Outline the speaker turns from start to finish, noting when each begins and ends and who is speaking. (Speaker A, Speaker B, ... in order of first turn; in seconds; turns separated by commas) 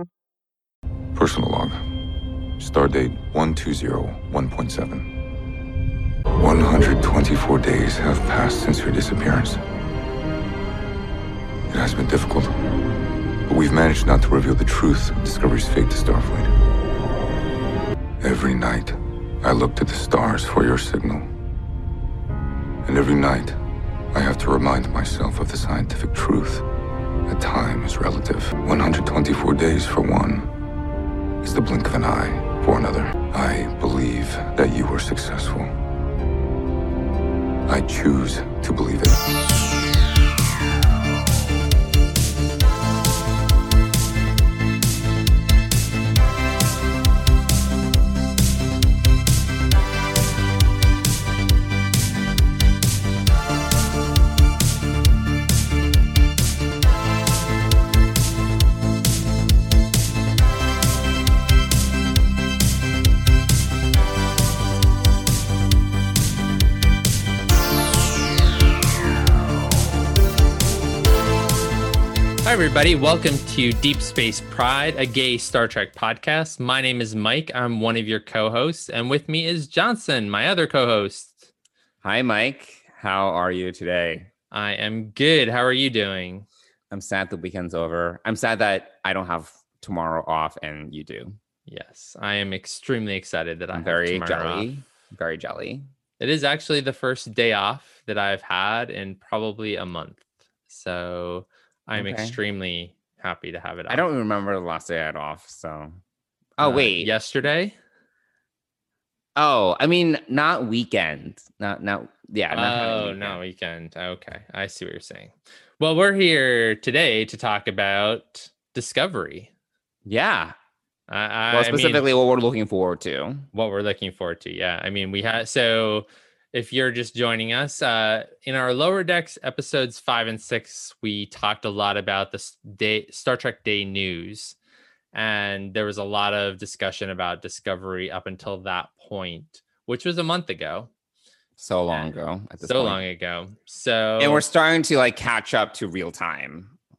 Speaker A: 1.1-1.9, Speaker A: 2.6-5.1, Speaker A: 6.4-9.6, Speaker A: 11.7-12.6, Speaker A: 13.5-16.5, Speaker A: 18.2-21.3, Speaker A: 22.8-23.6, Speaker A: 24.1-26.6, Speaker A: 27.2-30.5, Speaker A: 31.4-35.7, Speaker A: 37.7-39.3, Speaker B: 72.4-81.5, Speaker C: 82.0-84.3, Speaker B: 84.5-86.5, Speaker C: 86.9-91.3, Speaker B: 91.7-94.7, Speaker C: 93.7-95.8, Speaker B: 96.2-104.0, Speaker C: 102.0-102.4, Speaker C: 103.9-106.0, Speaker C: 106.6-107.1, Speaker B: 106.6-107.8, Speaker C: 109.3-113.4, Speaker B: 112.5-119.5, Speaker C: 120.0-120.5, Speaker B: 121.1-122.0, Speaker C: 121.5-123.5, Speaker B: 123.5-134.6, Speaker B: 135.1-140.9, Speaker C: 141.6-143.0, Speaker B: 142.6-144.4, Speaker C: 144.2-146.7